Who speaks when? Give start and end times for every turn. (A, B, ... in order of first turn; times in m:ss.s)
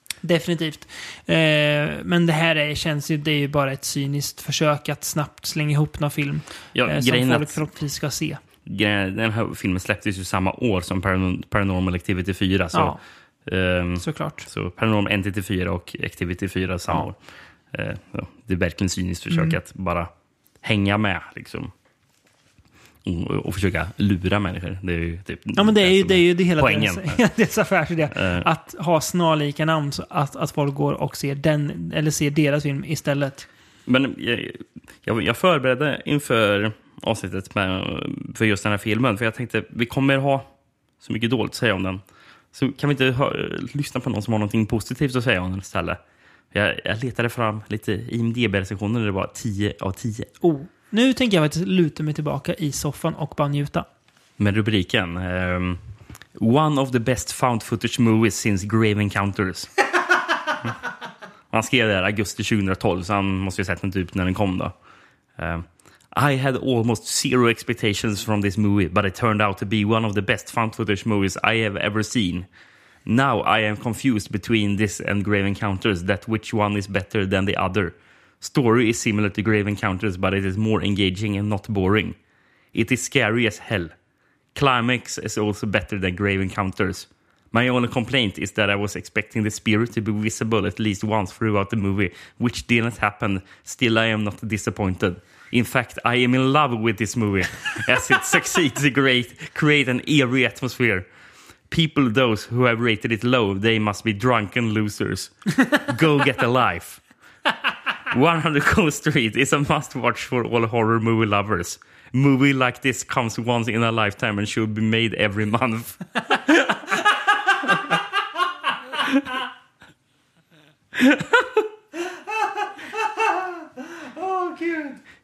0:00.2-0:08.4 A
0:06.7-0:07.6 B
0:08.6-0:17.2 B
0:14.0-0:14.5 A
0:17.7-0:20.1 B
0:20.6-0:21.7 B
0:23.0-0:27.2 B
0:25.6-0:33.5 A
0:28.1-0:28.5 B
0:33.9-0:40.5 B
0:41.0-0:42.0 B
0:42.5-0:46.0 B
0:46.5-0:50.3 B
0:50.4-0:53.9 A
0:54.4-0:55.8 B
0:56.4-0:59.7 B
1:01.5-1:04.7 B
1:05.4-1:12.5 B
1:13.1-1:22.2 B
1:22.7-1:23.9 B
1:24.6-1:41.1 B
1:41.7-1:47.0 B
1:48.1-1:56.8 B
2:01.0-2:01.6 B
2:04.2-2:05.0 A